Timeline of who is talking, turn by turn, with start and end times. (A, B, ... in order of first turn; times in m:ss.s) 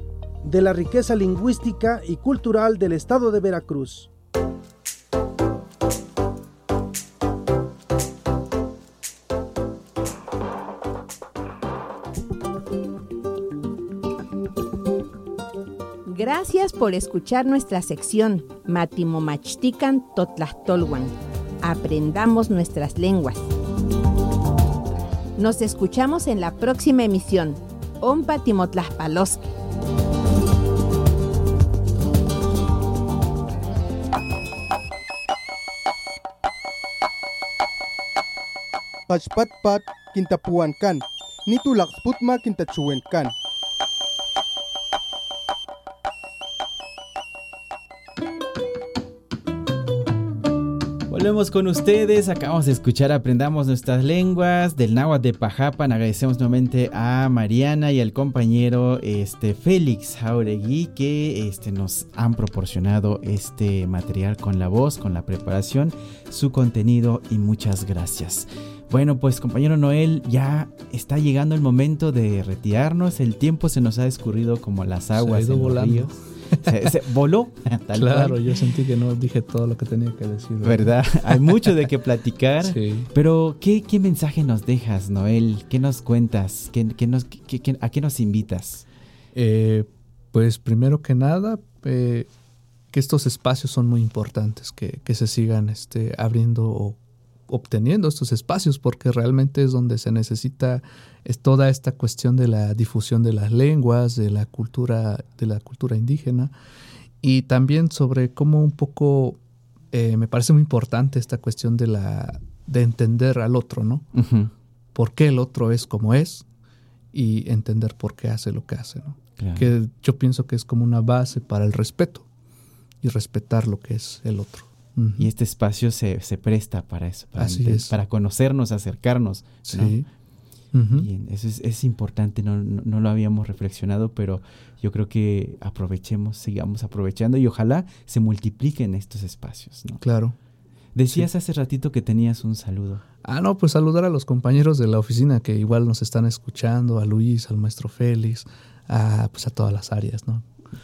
0:00.4-0:04.1 A
0:16.1-0:23.5 B
0:25.4-0:29.5 B
0:39.1-0:43.3 C
0:51.1-1:18.5 D
1:15.1-1:16.9 E
1:17.9-1:21.7 E
1:20.6-1:28.8 D
1:22.6-1:23.1 E
1:29.3-1:32.3 E
1:32.9-1:37.0 E
1:37.5-1:46.5 E
1:47.2-1:49.4 E
1:49.9-1:54.0 E
1:54.1-1:54.5 D
1:54.9-1:56.4 E
1:57.1-2:02.3 E
1:59.4-1:59.7 D
2:03.0-2:05.3 E
2:05.2-2:10.0 D
2:07.4-2:07.9 E
2:09.6-2:10.1 E
2:10.7-2:11.1 E
2:10.9-2:20.0 D
2:20.0-2:20.4 E
2:20.9-2:23.0 D
2:23.2-2:30.4 E